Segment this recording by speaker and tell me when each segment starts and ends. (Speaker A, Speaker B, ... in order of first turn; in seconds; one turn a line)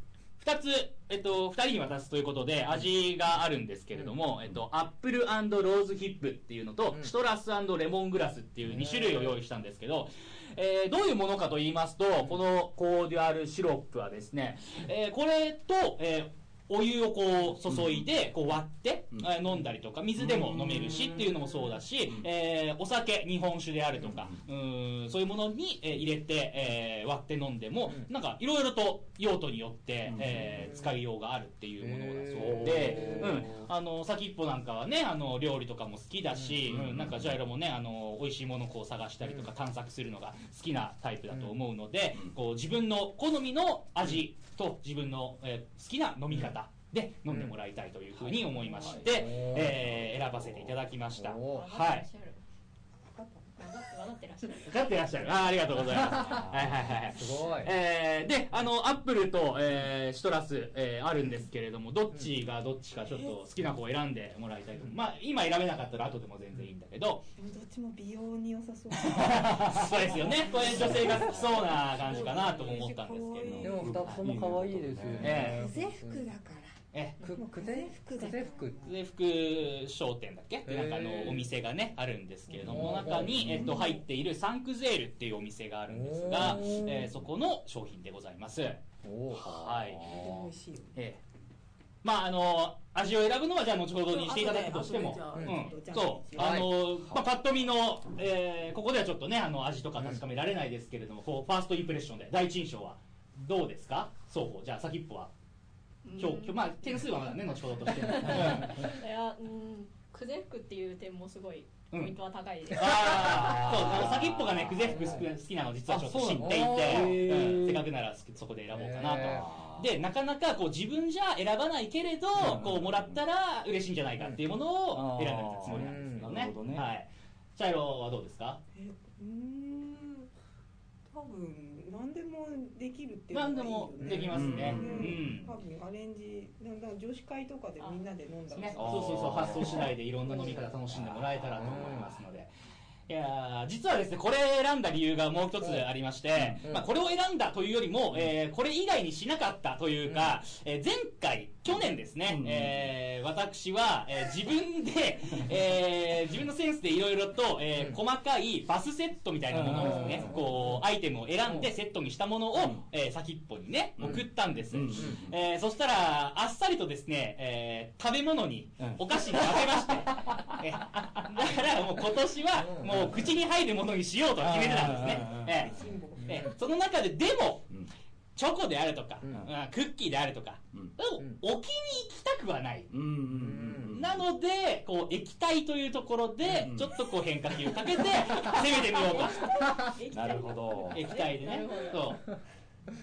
Speaker A: 0.4-52.1
Speaker B: 17.7-17.9
Speaker B: 20.2-20.9
Speaker B: 24.1-24.4
Speaker B: 30.1-30.7
Speaker C: 31.8-33.6
Speaker B: 32.4-33.5
Speaker B: 36.7-37.4
Speaker C: 47.3-47.5
Speaker C: 49.0-49.8
Speaker C: 51.2-51.7
Speaker D: 51.5-52.4
Speaker E: 53.1-53.5
Speaker D: 53.6-55.5
Speaker A: 54.7-67.2
Speaker C: 56.0-56.5
Speaker B: 56.2-56.7
Speaker C: 57.0-57.7
Speaker E: 63.1-63.4
Speaker E: 67.4-74.0
Speaker A: 69.0-74.2
Speaker B: 69.3-69.9
Speaker B: 70.6-71.6
Speaker B: 73.5-75.6
Speaker C: 73.6-76.2
Speaker A: 75.2-75.7
Speaker E: 75.2-76.7
Speaker A: 76.9-77.2
Speaker C: 77.2-78.8
Speaker E: 77.3-78.9
Speaker A: 78.8-88.8
Speaker C: 80.7-81.5
Speaker B: 82.6-83.8
Speaker C: 82.6-83.5
Speaker E: 83.5-84.0
Speaker C: 85.9-87.1
Speaker C: 89.0-89.5
Speaker B: 89.3-90.5
Speaker A: 89.4-90.3
Speaker E: 90.1-90.9
Speaker A: 92.0-105.3
Speaker E: 94.1-96.6
Speaker C: 95.3-95.6
Speaker C: 96.4-96.8
Speaker D: 106.0-107.1
Speaker A: 106.2-108.9
Speaker D: 107.9-113.7
Speaker A: 112.7-128.6
Speaker B: 113.0-115.0
Speaker B: 115.9-117.9
Speaker C: 116.4-117.8
Speaker C: 118.7-119.5
Speaker B: 119.2-119.9
Speaker B: 122.4-123.2
Speaker B: 124.9-126.9
Speaker C: 125.7-126.3
Speaker E: 128.8-130.3
Speaker E: 131.1-140.7
Speaker A: 133.3-135.6
Speaker B: 134.3-135.3
Speaker D: 137.8-138.9
Speaker A: 138.5-142.5
Speaker B: 138.8-139.8
Speaker B: 140.9-141.5
Speaker C: 141.6-142.1
Speaker A: 143.1-177.7
Speaker B: 146.4-146.7
Speaker C: 150.1-150.3
Speaker B: 152.3-152.9
Speaker B: 159.5-160.5
Speaker C: 159.7-160.8
Speaker B: 162.5-162.8
Speaker B: 164.0-165.4
Speaker B: 168.8-170.4
Speaker C: 172.6-173.1
Speaker B: 172.9-173.3
Speaker B: 174.4-175.7
Speaker E: 175.2-176.5
Speaker A: 178.4-182.9
Speaker B: 182.9-184.2
Speaker C: 183.3-183.9
Speaker A: 183.9-189.5
Speaker B: 186.6-186.9
Speaker D: 188.9-192.2
Speaker C: 189.6-189.9
Speaker B: 190.1-191.1
Speaker A: 190.9-192.2